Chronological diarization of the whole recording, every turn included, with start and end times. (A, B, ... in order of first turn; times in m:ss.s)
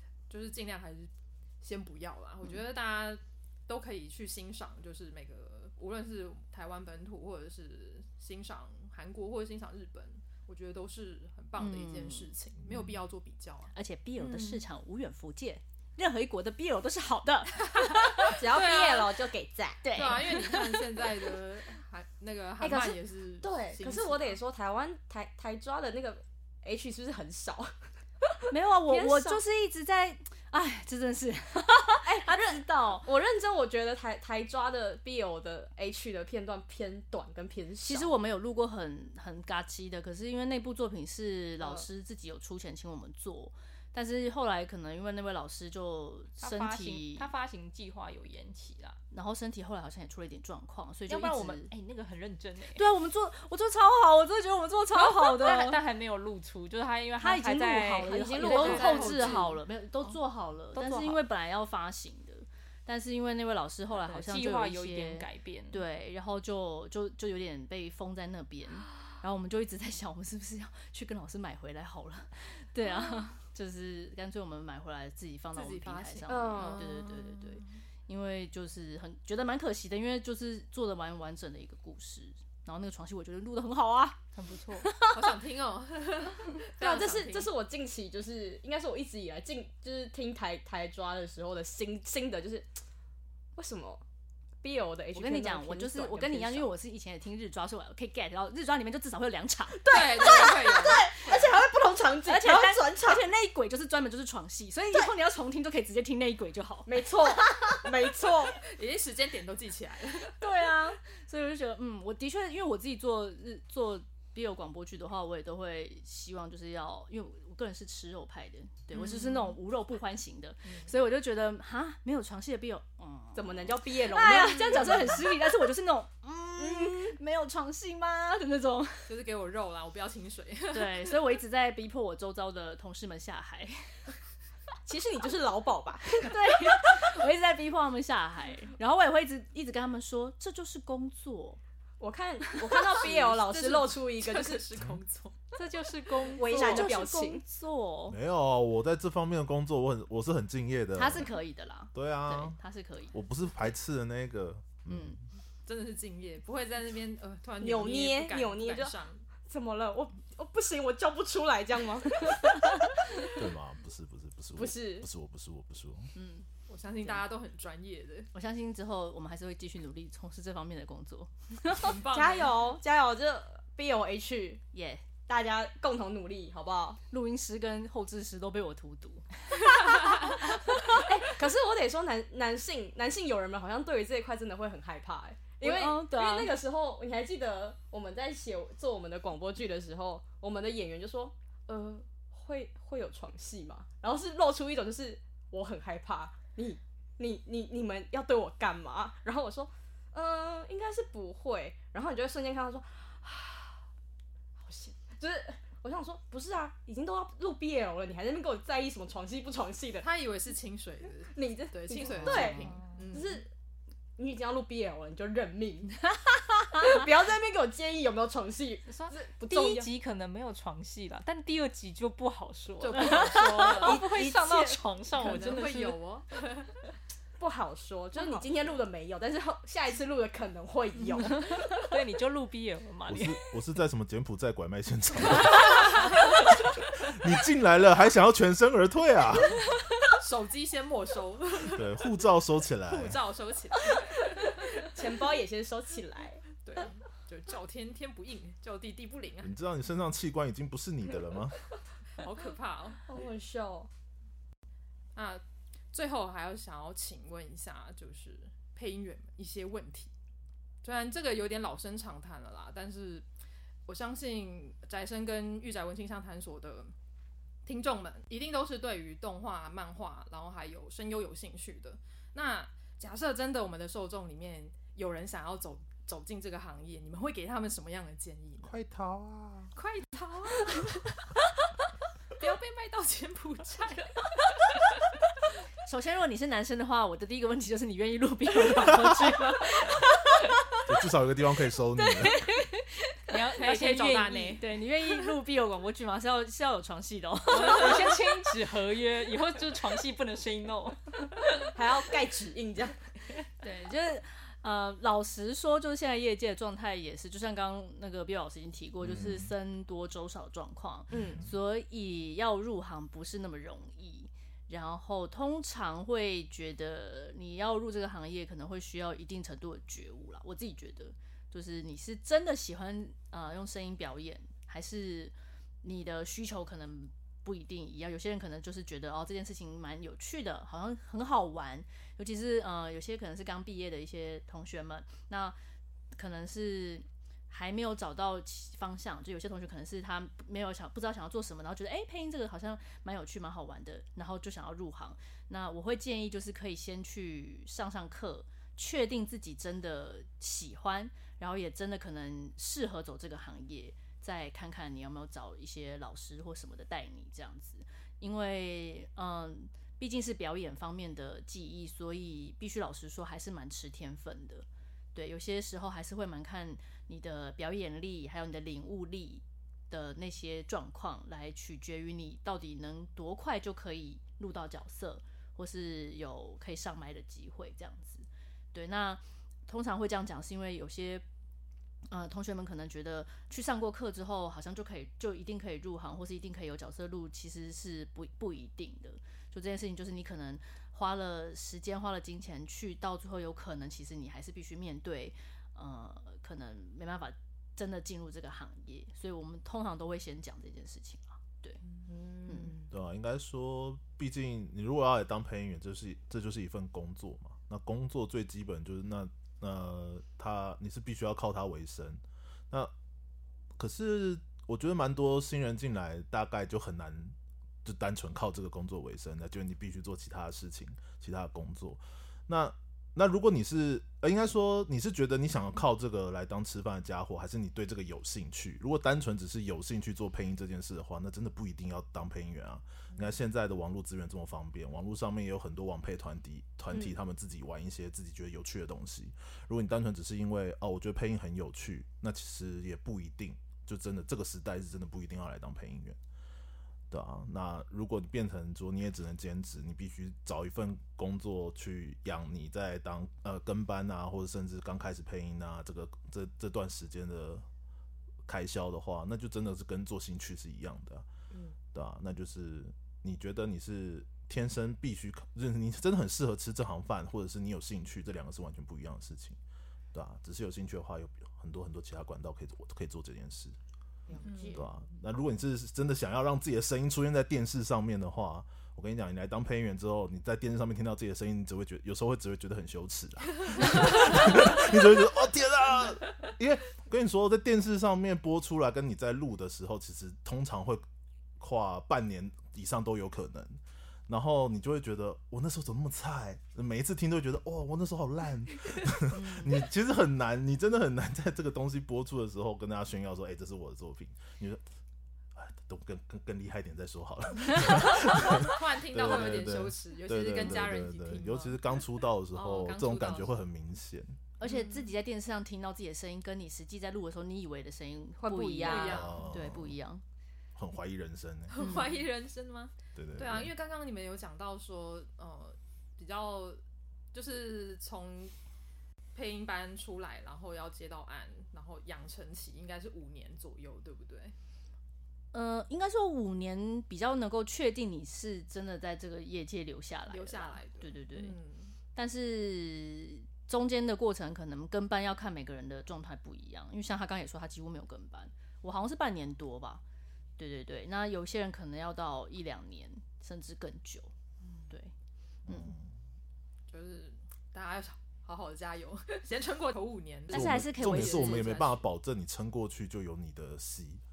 0:00.3-0:14.6 A
0:11.6-0:12.3 B
0:13.7-0:18.3 B
0:17.8-0:19.2 A
0:18.2-0:20.1 C
0:19.8-0:20.8 B
0:19.9-0:24.4 A
0:22.6-0:29.4 C
0:28.5-0:33.1 B
0:32.0-0:38.1 C
0:37.8-0:47.3 B
0:46.4-0:49.0 D
0:49.1-0:51.7 B
0:51.1-0:52.9 D
0:52.7-0:55.8 B
0:54.9-0:59.4 D
0:57.2-1:24.2 B
0:57.8-0:59.4 C
0:58.8-0:59.6 A
1:00.7-1:01.2 D
1:03.9-1:05.8 D
1:15.5-1:17.6 A
1:16.3-1:16.9 C
1:24.3-1:24.9 D
1:24.8-1:25.3 B
1:25.1-1:27.5 A
1:26.8-1:32.7 C
1:33.5-1:34.0 C
1:34.6-1:36.7 C
1:35.1-1:40.3 B
1:39.7-1:43.2 C
1:39.9-1:41.4 A
1:42.2-1:47.5 B
1:46.8-1:48.6 C
1:48.5-1:50.4 A
1:50.4-2:09.1 B
1:58.9-1:59.5 A
2:00.6-2:00.9 A
2:03.3-2:05.3 C
2:06.6-2:07.2 C
2:09.1-2:11.2 A
2:10.7-2:14.1 B
2:14.8-2:17.1 C
2:16.2-2:21.6 B
2:22.0-2:24.7 C
2:22.9-2:25.4 A
2:25.5-2:27.0 D
2:26.3-2:27.4 C
2:26.4-2:28.2 B
2:28.1-2:31.3 E
2:31.0-2:33.1 B
2:31.9-2:32.6 E
2:33.1-2:35.2 E
2:35.6-2:39.2 A
2:37.6-2:43.3 C
2:43.4-2:46.1 E
2:44.5-2:45.1 C
2:46.1-2:46.5 B
2:46.7-2:48.3 A
2:48.3-2:52.0 B
2:51.7-2:52.6 A
2:52.1-2:54.6 C
2:54.7-2:55.0 B
2:55.2-2:57.0 C
2:57.1-2:59.4 B
2:59.7-3:23.8 C
3:00.2-3:01.0 B
3:05.6-3:06.6 B
3:24.6-3:30.1 C
3:30.0-3:33.4 A
3:31.3-3:33.5 C
3:32.1-3:32.8 B
3:34.2-3:39.9 C
3:38.9-3:46.0 D
3:42.8-3:44.6 A
3:43.1-3:43.9 B
3:45.1-3:46.8 A
3:47.4-3:51.8 C
3:51.8-3:53.4 D
3:53.1-3:59.8 E
4:00.2-4:02.1 A
4:01.6-4:03.2 E
4:02.8-4:04.9 A
4:04.4-4:06.5 C
4:06.6-4:09.5 A
4:09.4-4:11.6 E
4:12.2-4:13.0 A
4:13.0-4:13.9 C
4:15.1-4:20.1 A
4:20.8-4:23.2 A
4:23.9-4:26.9 A
4:27.6-4:38.7 A
4:38.6-4:39.7 E
4:39.7-4:41.2 A
4:42.4-4:44.7 A
4:45.8-4:50.6 B
4:50.8-4:52.4 E
4:52.1-4:53.2 B
4:53.3-4:54.6 D
4:53.6-4:54.6 A
4:54.6-4:58.1 B
4:57.5-5:01.5 D
5:01.7-5:03.0 C
5:03.6-5:35.6 B
5:09.0-5:09.5 E
5:11.1-5:11.4 C
5:11.1-5:11.4 E
5:36.1-6:21.2 B
6:22.1-6:41.8 B
6:41.9-6:42.9 C
6:42.5-6:42.8 B
6:42.9-6:52.9 E
6:53.8-7:26.2 E
7:27.1-7:37.7 E
7:38.4-7:41.2 E
7:41.5-7:41.8 C
7:41.9-7:49.6 E
7:50.1-7:53.8 E
7:54.3-7:54.9 C
7:54.4-7:54.8 A
7:54.7-8:11.0 E
8:11.6-8:24.8 E
8:19.3-8:19.8 B
8:25.6-8:34.5 E
8:28.3-8:31.8 A
8:32.5-8:33.6 A
8:34.6-8:40.2 B
8:34.6-8:35.1 A
8:38.4-8:39.2 C
8:38.8-8:39.5 A
8:39.1-8:40.0 E
8:40.7-8:42.0 E
8:41.7-8:46.8 A
8:41.8-8:42.2 B
8:43.1-8:43.7 E
8:47.3-8:48.5 A
8:49.3-8:54.5 A
8:55.5-9:01.6 B
9:00.3-9:01.9 A
9:02.1-9:10.0 B
9:10.6-9:14.3 B
9:15.7-9:15.9 B
9:15.7-9:16.1 E
9:16.9-9:21.7 A
9:20.5-9:22.0 B
9:20.5-9:24.2 E